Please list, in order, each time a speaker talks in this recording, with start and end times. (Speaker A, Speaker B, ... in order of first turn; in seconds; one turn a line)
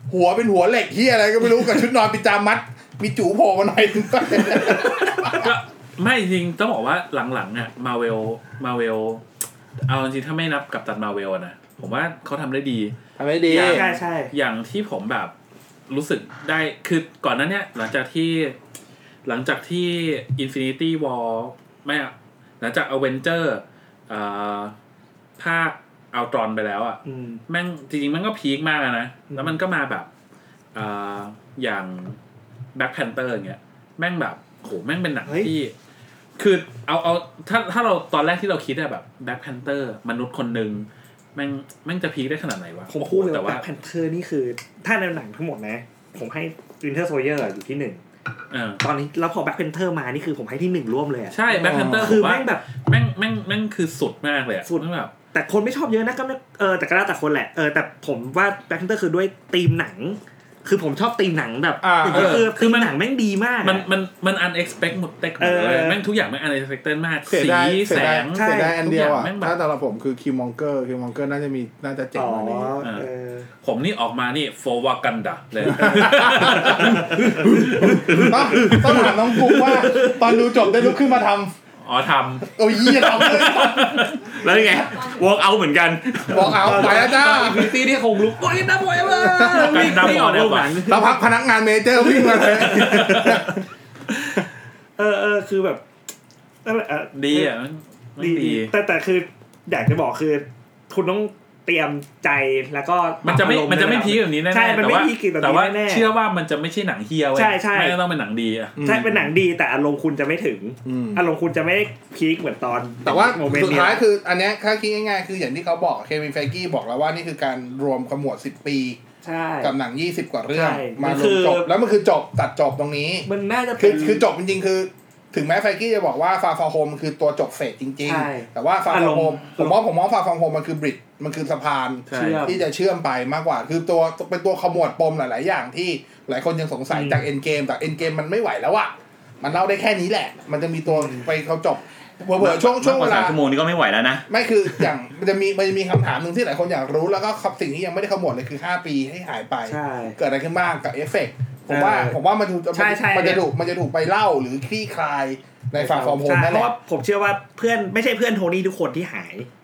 Speaker A: 0.1-5.5
Speaker B: 5.3-9.2
Speaker B: 9.9-12.9
Speaker A: 13.2-13.8
Speaker B: 13.5-15.3
Speaker C: 13.5-14.3
Speaker B: 15.9-18.6
Speaker B: 19.2-24.7
Speaker B: 25.4-30.1
Speaker C: 27.1-27.4
Speaker C: 29.3-29.5
Speaker B: 30.7-32.2
Speaker B: 32.7-35.7
Speaker C: 35.2-35.5
Speaker B: 36.4-43.6
Speaker C: 42.9-48.0
Speaker B: 48.5-48.8
Speaker C: 48.8-52.7
Speaker B: 51.3-55.1
Speaker A: 51.5-52.2
Speaker C: 54.6-63.9
Speaker A: 61.8-62.5
Speaker B: 62.0-62.9
Speaker B: 63.6-69.5
Speaker C: 65.4-66.0
Speaker A: 67.3-72.7
Speaker C: 68.3-68.8
Speaker C: 72.1-73.5
Speaker B: 72.8-73.1
Speaker B: 73.6-78.8
Speaker A: 75.7-81.5
Speaker C: 76.5-80.7
Speaker B: 81.8-84.3
Speaker A: 82.5-84.1
Speaker D: 84.2-87.5
Speaker A: 86.3-87.7
Speaker C: 86.5-91.2
Speaker A: 89.1-90.0
Speaker B: 89.5-90.9
Speaker A: 90.8-93.6
Speaker C: 92.0-93.4
Speaker B: 92.9-93.4
Speaker C: 95.0-95.8
Speaker C: 96.6-97.5
Speaker B: 97.1-98.7
Speaker C: 98.2-106.1
Speaker B: 103.2-108.8
Speaker C: 107.3-108.0
Speaker A: 108.8-109.3
Speaker C: 108.8-114.0
Speaker A: 110.8-111.2
Speaker A: 113.0-119.0
Speaker C: 119.2-119.7
Speaker A: 119.6-143.4
Speaker C: 120.5-121.7
Speaker C: 123.2-124.2
Speaker C: 128.0-129.8
Speaker B: 132.1-132.5
Speaker C: 132.1-132.6
Speaker C: 136.9-137.2
Speaker C: 140.9-141.2
Speaker D: 142.4-144.9
Speaker A: 144.3-156.7
Speaker C: 149.7-150.2
Speaker C: 151.7-152.2
Speaker C: 152.7-153.4
Speaker C: 155.8-159.5